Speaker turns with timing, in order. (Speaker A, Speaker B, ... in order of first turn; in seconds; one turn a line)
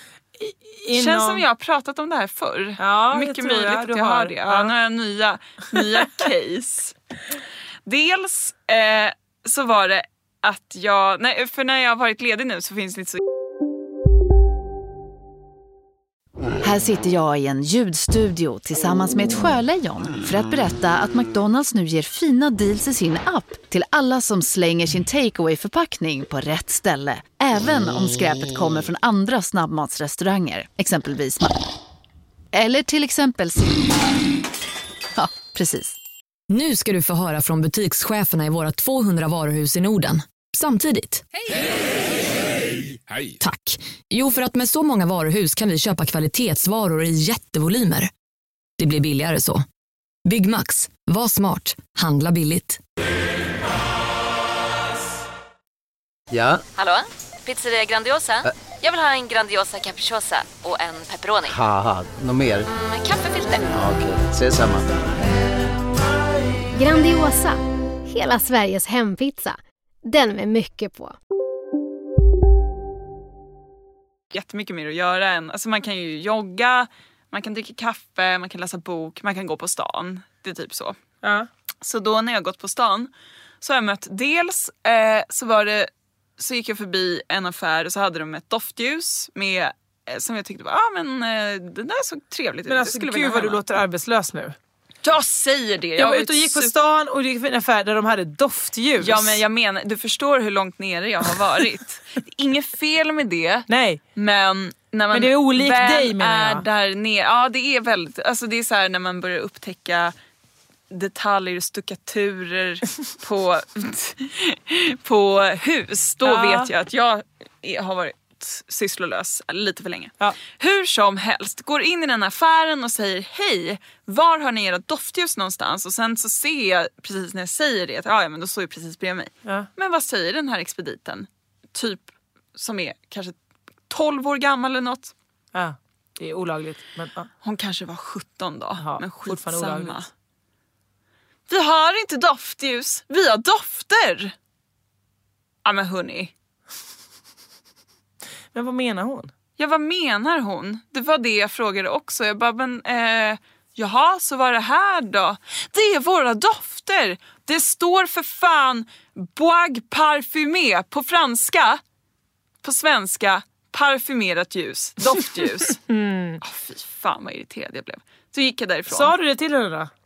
Speaker A: 0.4-1.4
Speaker B: 0.9-7.0
Speaker A: 2.8-4.7
Speaker B: 7.9-13.2
Speaker C: 16.6-31.6
Speaker C: 32.5-33.9
Speaker C: 35.1-36.0
Speaker D: 36.5-41.2
Speaker D: 43.4-48.1
Speaker D: 48.8-49.6
Speaker D: 50.2-52.8
Speaker E: 56.3-56.6
Speaker F: 56.8-61.6
Speaker E: 61.5-62.7
Speaker F: 62.7-63.9
Speaker E: 63.7-64.9
Speaker G: 66.7-71.2
Speaker B: 74.3-81.0
Speaker A: 81.2-81.5
Speaker B: 81.8-83.1
Speaker B: 83.6-93.6
Speaker A: 92.7-94.5
Speaker B: 95.0-96.7
Speaker A: 96.0-99.4
Speaker B: 99.0-110.1
Speaker A: 103.7-104.0
Speaker A: 105.1-106.6
Speaker B: 110.9-133.3
Speaker A: 116.2-116.7
Speaker B: 133.9-135.1
Speaker A: 135.6-137.3
Speaker B: 137.4-140.1
Speaker A: 138.8-140.1
Speaker B: 141.5-144.3
Speaker B: 145.7-146.3
Speaker A: 148.5-149.3
Speaker B: 149.6-161.8
Speaker B: 162.6-165.8
Speaker A: 165.7-166.4
Speaker B: 166.4-169.2
Speaker A: 168.9-169.9